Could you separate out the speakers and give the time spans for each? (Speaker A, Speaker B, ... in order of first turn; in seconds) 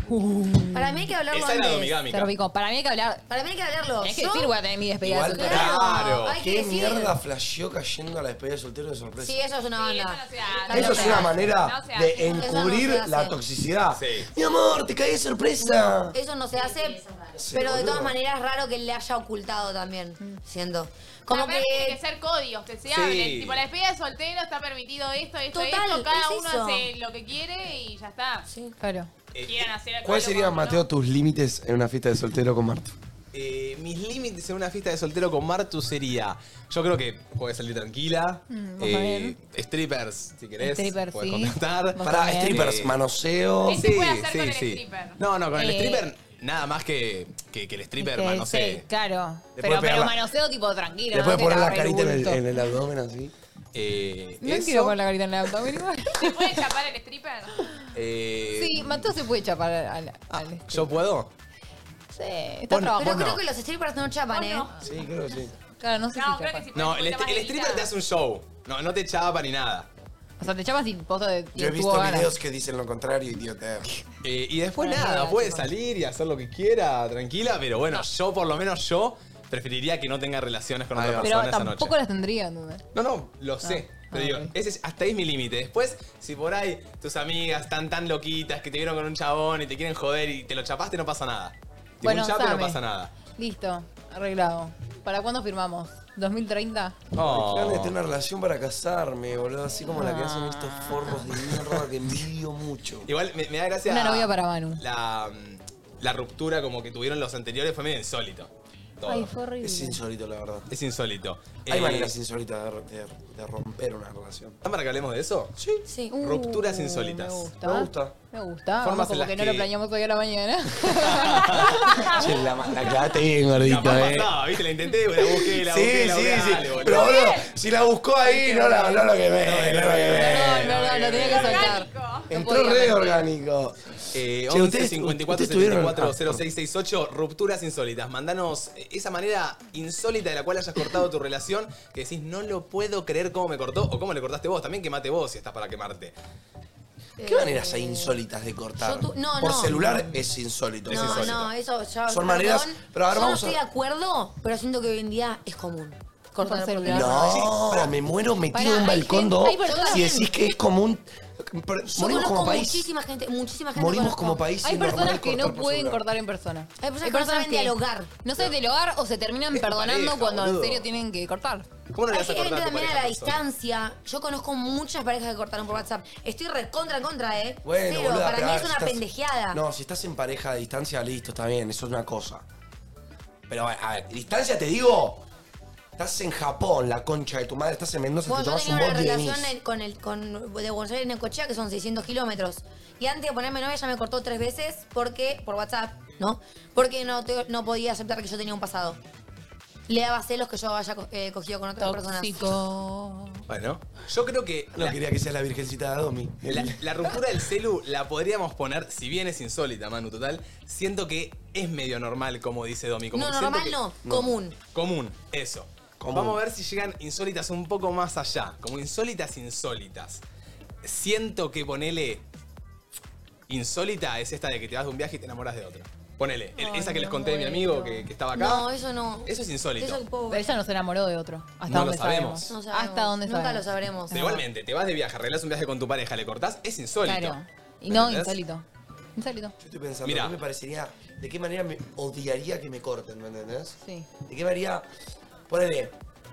Speaker A: 0.1-0.8, 2.1-3.2, 4.0-5.7, 10.7-11.3, 28.8-29.1, 38.5-39.4, 40.6-42.6, 45.5-46.1, 48.0-52.4, 54.4-56.6, 58.6-60.9, 62.1-63.3, 65.8-66.7, 70.4-72.3, 74.8-75.3, 81.2-82.8, 83.6-84.5, 92.0-92.8, 93.3-97.0, 99.9-101.2, 103.9-104.8, 109.1-110.0, 116.1-122.0, 128.2-129.1, 130.1-133.2, 156.4-157.5, 158.5-160.1, 164.6-171.7, 201.8-203.4, 226.6-228.1, 230.3-234.4, 237.1-238.6, 239.2-239.5, 243.8-244.1
Speaker B: 0.7-1.9, 3.3-4.5, 5.3-7.1, 9.2-11.3, 12.3-13.4, 15.7-22.0, 25.5-26.9, 28.5-28.8, 63.0-64.7, 74.9-75.7, 115.9-116.2, 147.2-148.2, 148.8-150.1, 150.9-157.9, 158.7-159.1, 159.7-160.3, 161.9-164.4, 166.8-168.1, 172.1-179.6, 188.3-199.0, 199.9-202.6, 213.1-214.6, 228.3-230.6, 232.5-234.2
Speaker C: 1.3-2.3, 5.4-6.4, 13.9-14.3, 22.9-23.6, 29.3-29.7, 33.3-43.0, 43.7-48.9, 53.7-55.0, 57.9-59.1, 60.7-61.3, 62.7-63.4, 66.7-69.9, 74.2-82.0, 82.9-93.1, 97.1-97.9, 103.1-109.3, 110.7-112.2, 114.6-115.5, 116.2-117.5, 118.8-119.7, 121.0-121.9, 123.6-127.2, 129.4-131.8, 134.1-146.2, 150.9-151.5, 169.5-170.9, 171.9-173.4, 203.5-205.0, 206.5-213.8, 214.7-220.2, 220.8-222.2, 223.5-228.7, 229.3-230.0, 231.7-232.5, 234.1-238.3, 240.0-240.4
Speaker D: 5.0-9.4, 10.7-16.2, 17.4-18.2, 30.1-32.9, 42.0-43.9, 49.6-50.2, 51.1-53.3, 64.8-65.5, 71.5-73.9, 80.9-81.3, 97.2-103.1, 109.6-110.7, 111.7-114.6, 115.6-115.8, 117.6-118.2, 122.2-124.3, 125.2-130.7, 132.3-133.8, 134.5-136.4, 147.2-151.5, 152.1-153.6, 156.9-162.9, 163.7-166.0, 177.6-182.4, 183.5-185.2, 186.0-189.5, 204.8-206.8, 214.1-214.4, 216.0-216.4, 239.6-244.9, 245.5-245.9
Speaker E: 9.8-12.8, 21.3-28.5, 29.4-30.9, 43.7-45.2, 56.2-57.6, 64.3-64.7, 66.1-67.9, 126.9-127.4, 131.3-132.3